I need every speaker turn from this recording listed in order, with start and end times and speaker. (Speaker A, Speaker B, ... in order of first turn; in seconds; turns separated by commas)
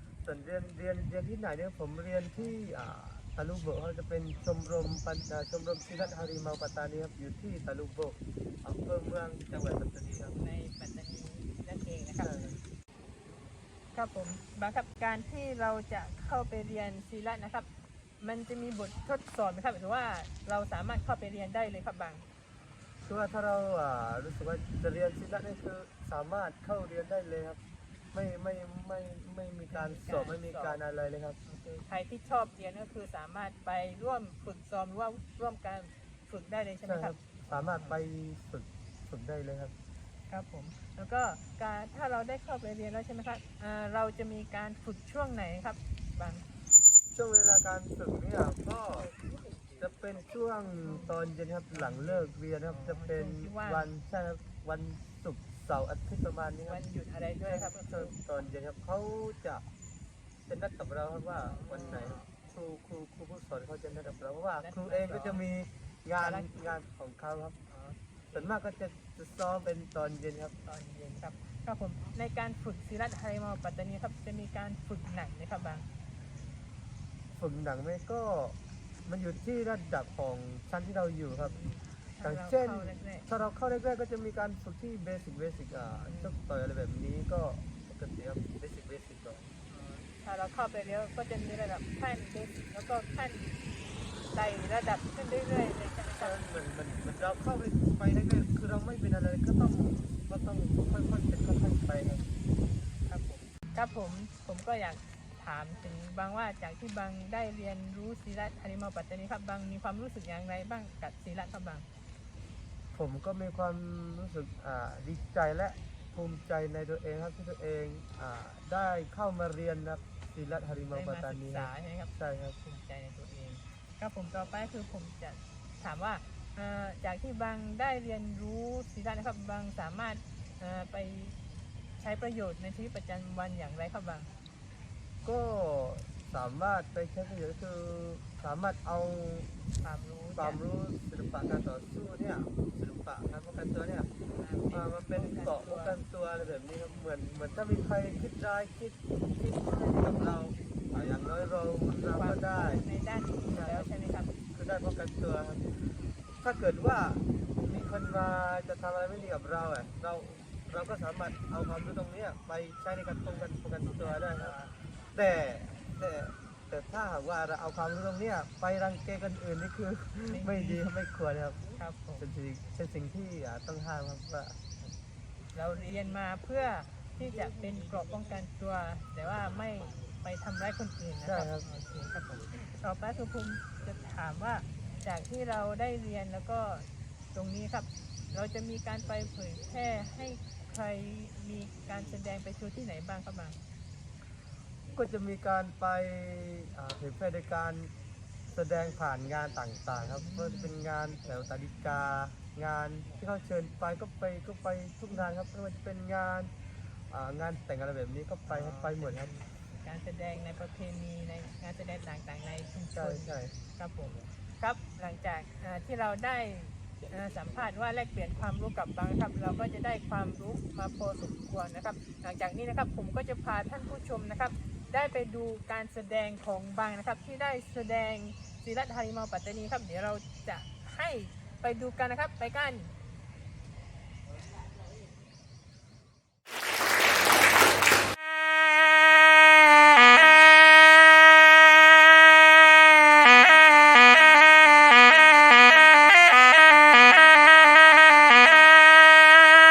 Speaker A: 0.2-10.3, Speaker B: 10.2-12.3, Speaker A: 12.2-12.6, Speaker B: 13.9-17.7, Speaker B: 18.2-22.2, Speaker A: 23.0-27.6, Speaker A: 28.1-31.4, Speaker B: 29.7-30.8, Speaker B: 31.4-37.1, Speaker A: 36.9-39.7, Speaker B: 37.7-38.0, Speaker B: 40.3-46.4, Speaker A: 47.1-49.1, Speaker B: 49.1-49.8, Speaker A: 49.8-56.8, Speaker B: 50.8-51.1, Speaker B: 51.7-53.9, Speaker B: 56.7-58.1, Speaker A: 57.5-59.6, Speaker A: 60.5-67.6, Speaker B: 61.5-62.2, Speaker B: 64.6-65.4, Speaker B: 66.2-66.7, Speaker B: 67.7-68.4, Speaker A: 68.3-70.5, Speaker B: 70.7-75.8, Speaker A: 77.3-81.6, Speaker B: 81.4-83.2, Speaker A: 82.2-89.5, Speaker B: 86.1-86.3, Speaker B: 89.7-93.5, Speaker B: 94.3-96.4, Speaker A: 96.2-102.3, Speaker B: 103.1-111.8, Speaker A: 112.9-122.6, Speaker B: 120.9-131.4, Speaker B: 132.0-134.3, Speaker A: 135.2-139.5, Speaker B: 139.8-140.6, Speaker A: 140.3-144.1, Speaker B: 144.4-146.0, Speaker A: 144.7-152.8, Speaker B: 152.1-154.3, Speaker A: 153.5-153.9, Speaker A: 154.5-155.7, Speaker A: 156.3-174.6, Speaker B: 163.9-164.6, Speaker B: 170.2-170.9, Speaker B: 171.7-172.2, Speaker B: 175.5-193.6, Speaker A: 181.2-181.7, Speaker A: 194.9-197.9, Speaker A: 198.5-206.5, Speaker B: 200.1-200.7, Speaker A: 207.1-209.3, Speaker B: 208.5-232.9, Speaker A: 212.9-213.5